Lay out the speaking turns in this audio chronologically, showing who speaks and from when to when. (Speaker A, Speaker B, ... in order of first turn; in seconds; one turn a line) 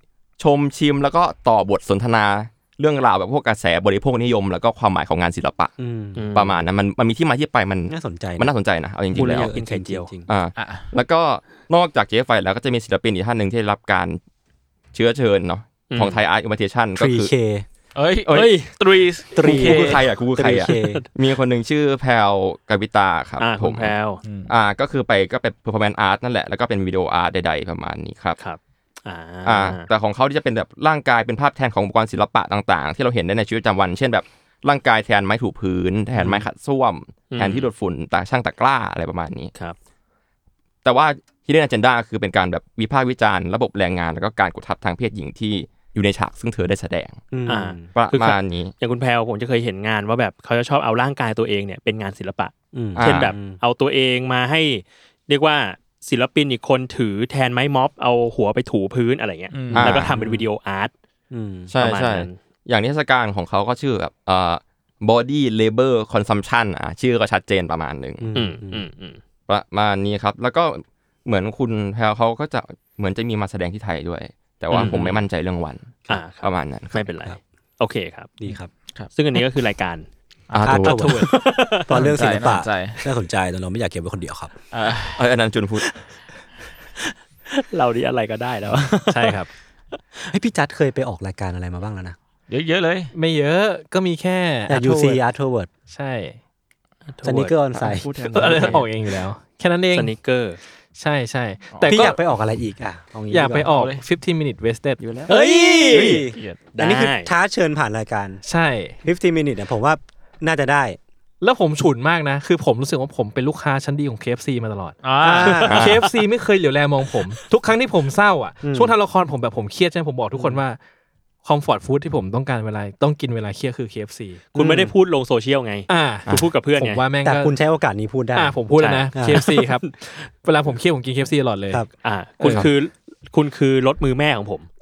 Speaker A: 0.4-5.7
Speaker B: 5.8-6.2
Speaker C: 6.2-6.6
Speaker A: 6.3-9.5
Speaker B: 7.9-8.5
Speaker B: 9.1-10.2
Speaker C: 9.1-10.1
Speaker A: 10.3-14.2
Speaker D: 10.6-10.9
Speaker A: 14.9-17.3
Speaker C: 15.9-16.2
Speaker B: 16.9-17.6
Speaker D: 17.9-20.0
Speaker C: 18.3-18.7
Speaker B: 19.4-21.0
Speaker A: 19.4-23.9
Speaker C: 20.5-21.0
Speaker C: 23.4-24.2
Speaker D: 24.2-24.5
Speaker A: 24.5-28.4
Speaker C: 28.4-29.9
Speaker A: 29.4-39.5
Speaker C: 36.2-36.4
Speaker C: 37.3-37.7
Speaker A: 40.8-47.2
Speaker B: 47.3-47.9
Speaker C: 47.5-60.9
Speaker A: 47.9-48.7
Speaker B: 52.7-53.6
Speaker A: 52.9-53.3
Speaker D: 59.5-59.9
Speaker B: 59.7-60.5
Speaker A: 59.7-60.1
Speaker B: 61.3-61.7
Speaker A: 61.7-68.3
Speaker C: 61.8-62.4
Speaker B: 68.2-68.9
Speaker C: 68.3-69.2
Speaker A: 69.5-77.1
Speaker C: 74.7-75.2
Speaker C: 76.1-78.4
Speaker B: 78.4-78.7
Speaker C: 79.1-80.1
Speaker D: 80.5-81.3
Speaker A: 80.5-80.9
Speaker B: 80.6-84.5
Speaker C: 80.9-81.9
Speaker D: 81.9-83.0
Speaker D: 84.7-85.2
Speaker A: 85.2-85.8
Speaker C: 87.0-89.4
Speaker E: 89.1-89.5
Speaker B: 90.3-92.2
Speaker D: 92.5-93.1
Speaker E: 93.1-95.2
Speaker B: 94.7-95.7
Speaker E: 95.9-96.4
Speaker C: 97.1-97.6
Speaker B: 97.2-98.1
Speaker D: 97.8-98.8
Speaker C: 98.1-98.8
Speaker E: 98.3-100.1
Speaker C: 99.9-100.6
Speaker E: 101.0-102.2
Speaker D: 101.7-102.0
Speaker B: 101.8-103.7
Speaker E: 103.3-105.0
Speaker D: 103.6-104.0
Speaker A: 105.0-105.3
Speaker C: 105.3-107.3
Speaker B: 105.3-108.4
Speaker E: 108.4-109.0
Speaker B: 109.0-111.0
Speaker E: 111.4-120.8
Speaker D: 115.0-115.6
Speaker B: 115.2-115.7
Speaker A: 115.6-116.1
Speaker B: 118.6-118.9
Speaker E: 121.4-124.5
Speaker B: 124.5-124.9
Speaker C: 124.5-127.0
Speaker E: 125.9-127.5
Speaker B: 127.2-128.6
Speaker E: 128.3-131.8
Speaker C: 128.8-129.7
Speaker B: 129.1-129.5
Speaker C: 132.0-134.7
Speaker E: 132.4-132.7